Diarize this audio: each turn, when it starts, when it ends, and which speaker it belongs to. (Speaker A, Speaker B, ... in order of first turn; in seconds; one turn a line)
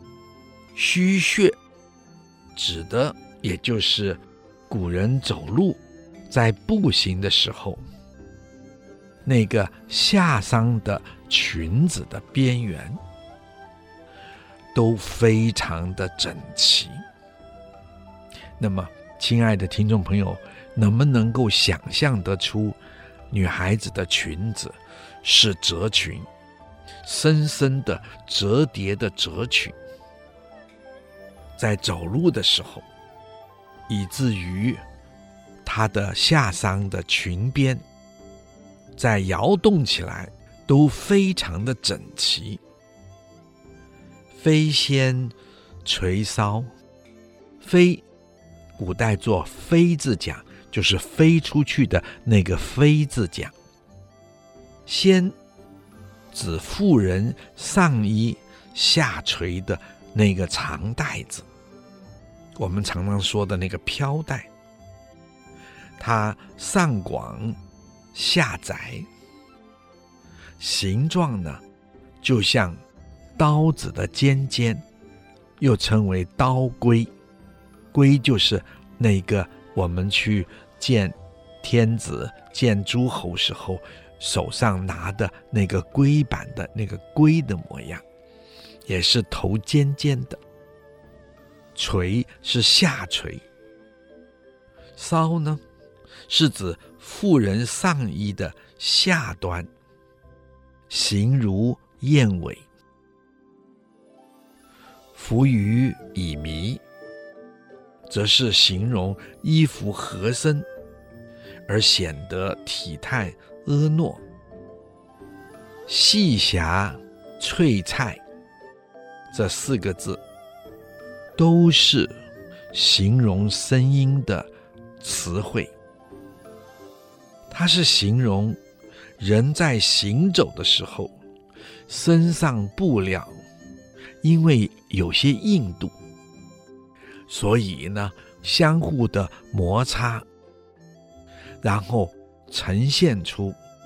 Speaker A: 0.7-1.6
Speaker A: 2.5-7.8
Speaker A: 9.2-13.0
Speaker A: 14.7-17.0
Speaker A: 18.6-22.8
Speaker A: 23.3-26.3
Speaker A: 27.0-29.8
Speaker A: 31.6-32.8
Speaker A: 33.9-34.8
Speaker A: 35.6-37.8
Speaker A: 39.0-42.6
Speaker A: 44.3-46.7
Speaker A: 47.6-48.0
Speaker A: 48.8-53.5
Speaker A: 54.9-55.3
Speaker A: 56.3-61.5
Speaker A: 62.5-64.5
Speaker A: 66.0-67.6
Speaker A: 68.1-69.1
Speaker A: 70.6-71.6
Speaker A: 72.2-72.8
Speaker A: 73.4-74.8
Speaker A: 75.6-77.1
Speaker A: 77.9-88.0
Speaker A: 88.9-90.4
Speaker A: 91.7-93.4
Speaker A: 95.0-95.6
Speaker A: 96.3-99.7
Speaker A: 100.9-102.6
Speaker A: 105.1-106.8
Speaker A: 108.1-110.7
Speaker A: 111.7-114.2
Speaker A: 115.9-118.2
Speaker A: 119.3-120.2
Speaker A: 121.4-122.1
Speaker A: 122.7-125.7
Speaker A: 127.5-128.6
Speaker A: 129.2-131.1
Speaker A: 131.9-133.4
Speaker A: 134.2-135.9
Speaker A: 137.3-140.2
Speaker A: 141.6-143.6